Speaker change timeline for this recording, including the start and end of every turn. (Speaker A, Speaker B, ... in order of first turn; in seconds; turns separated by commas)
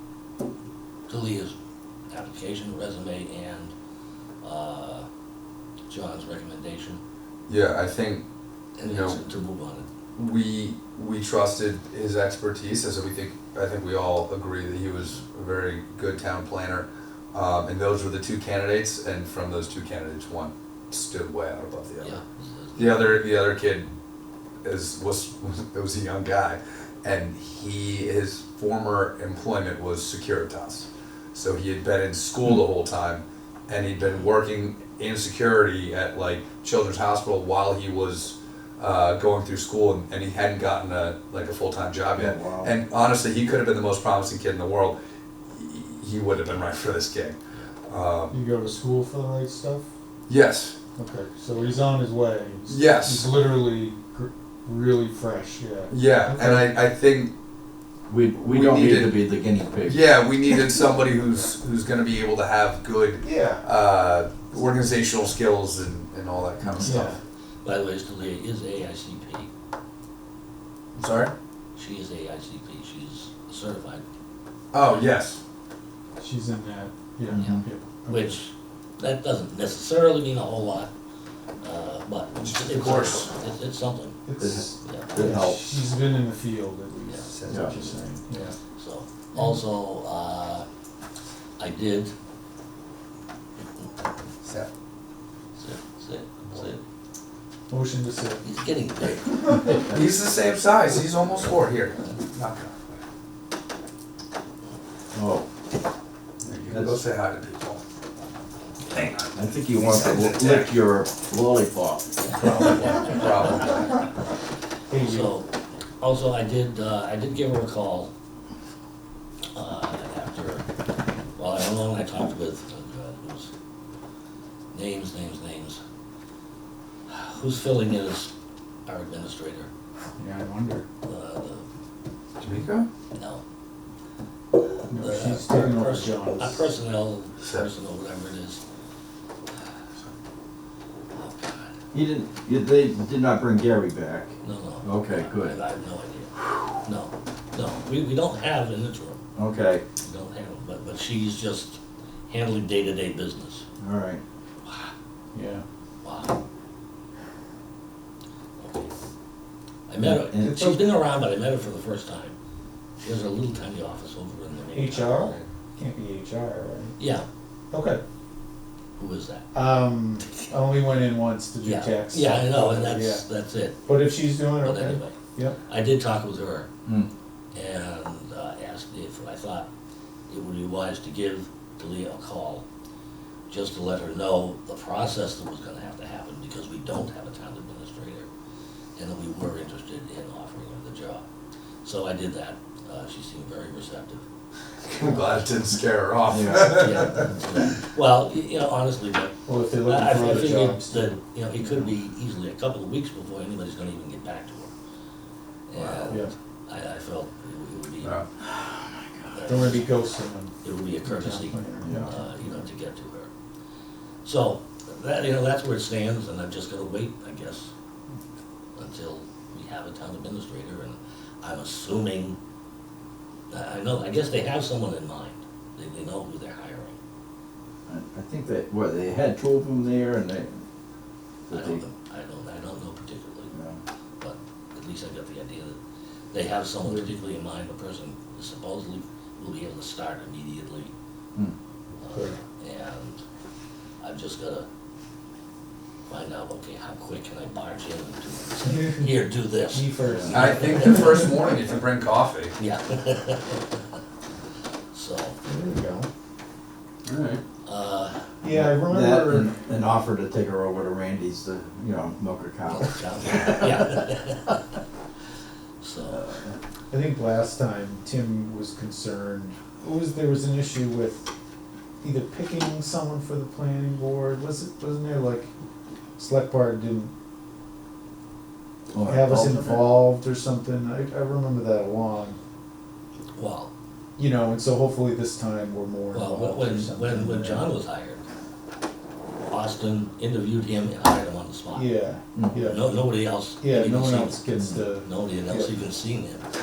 Speaker A: 1.1-1.5, Speaker A: 2.1-3.7, Speaker A: 4.4-5.1, Speaker A: 5.9-7.0, Speaker B: 7.5-8.2, Speaker A: 8.8-9.8, Speaker B: 8.8-9.2, Speaker B: 10.2-22.2, Speaker A: 22.0-23.3, Speaker B: 22.8-23.9, Speaker B: 24.6-45.0, Speaker C: 42.1-42.7, Speaker B: 45.5-48.4, Speaker D: 48.3-49.9, Speaker B: 50.3-50.8, Speaker D: 51.0-56.7, Speaker B: 52.7-53.3, Speaker B: 55.9-57.3, Speaker C: 58.1-60.0, Speaker B: 58.4-59.2, Speaker B: 59.8-67.2, Speaker D: 63.2-63.6, Speaker D: 66.8-67.2, Speaker A: 67.6-69.5, Speaker B: 70.9-71.3, Speaker A: 71.8-74.0, Speaker B: 74.7-75.4, Speaker D: 76.2-78.4, Speaker C: 77.3-77.5, Speaker A: 77.4-80.9, Speaker A: 81.6-84.2, Speaker B: 82.4-83.3, Speaker D: 84.3-88.5, Speaker C: 84.4-85.8, Speaker A: 84.8-85.4, Speaker A: 87.1-87.3, Speaker B: 87.3-88.0, Speaker C: 87.5-87.7, Speaker A: 88.8-90.7, Speaker A: 91.6-92.1, Speaker B: 94.4-94.7, Speaker A: 95.6-96.8, Speaker D: 97.7-98.4, Speaker A: 98.4-99.7, Speaker B: 99.7-102.8, Speaker C: 105.1-105.5, Speaker B: 106.4-107.8, Speaker C: 106.7-107.0, Speaker A: 108.8-109.1, Speaker B: 108.9-110.8, Speaker C: 109.3-112.5, Speaker A: 112.2-113.7, Speaker B: 112.4-113.9, Speaker D: 114.9-115.3, Speaker A: 115.0-118.1, Speaker A: 119.5-120.7, Speaker A: 121.3-123.5, Speaker A: 124.7-125.8, Speaker A: 127.1-128.3, Speaker A: 128.8-129.7, Speaker D: 130.2-130.8, Speaker A: 131.0-131.6, Speaker B: 132.4-132.9, Speaker A: 133.1-133.4, Speaker D: 134.9-136.7, Speaker A: 134.9-138.6, Speaker B: 137.4-137.7, Speaker A: 141.1-141.7, Speaker C: 141.9-144.3, Speaker A: 144.4-146.3, Speaker C: 144.8-145.6, Speaker A: 146.8-149.2, Speaker C: 149.3-149.8, Speaker A: 150.0-153.7, Speaker C: 153.8-154.2, Speaker A: 154.6-154.9, Speaker D: 155.3-155.6, Speaker A: 156.0-156.4, Speaker A: 158.6-158.9, Speaker A: 159.9-162.3, Speaker C: 160.0-160.7, Speaker D: 160.5-160.7, Speaker A: 163.0-165.4, Speaker D: 164.7-167.0, Speaker A: 167.0-167.2, Speaker D: 167.7-168.0, Speaker A: 169.0-169.5, Speaker D: 169.5-173.2, Speaker A: 171.6-173.9, Speaker D: 173.8-175.6, Speaker A: 174.5-176.7, Speaker A: 177.5-179.7, Speaker A: 180.3-182.6, Speaker A: 183.5-188.3, Speaker A: 188.9-191.2, Speaker A: 191.8-194.2, Speaker B: 194.9-197.3, Speaker C: 196.3-196.9, Speaker A: 196.7-204.7, Speaker D: 199.4-201.2, Speaker A: 205.7-208.2, Speaker C: 208.4-209.3, Speaker A: 209.3-209.8, Speaker D: 209.4-212.6, Speaker A: 210.6-213.3, Speaker C: 211.8-212.1, Speaker A: 214.2-217.7, Speaker A: 218.7-222.4, Speaker A: 223.5-227.0, Speaker C: 227.9-230.6, Speaker C: 231.5-231.8, Speaker A: 231.5-233.5, Speaker C: 233.5-233.8, Speaker A: 234.2-235.8, Speaker A: 236.3-240.9, Speaker A: 242.0-243.2, Speaker D: 242.1-242.3, Speaker A: 244.0-244.7, Speaker A: 246.1-251.3, Speaker D: 249.7-251.3, Speaker B: 250.3-252.6, Speaker A: 252.6-253.8, Speaker A: 254.9-255.4, Speaker D: 255.4-256.1, Speaker C: 257.0-257.4, Speaker A: 257.6-258.2, Speaker D: 258.4-259.5, Speaker C: 258.5-264.0, Speaker A: 262.7-264.6, Speaker A: 265.8-266.3, Speaker C: 266.1-266.5, Speaker D: 266.9-271.3, Speaker D: 272.0-275.5, Speaker D: 276.2-277.1, Speaker C: 278.9-279.9, Speaker D: 279.0-282.4, Speaker A: 283.3-283.7, Speaker D: 284.2-287.7, Speaker A: 286.1-288.2, Speaker A: 289.5-292.0, Speaker D: 291.7-292.9, Speaker A: 292.6-296.5, Speaker D: 293.6-295.7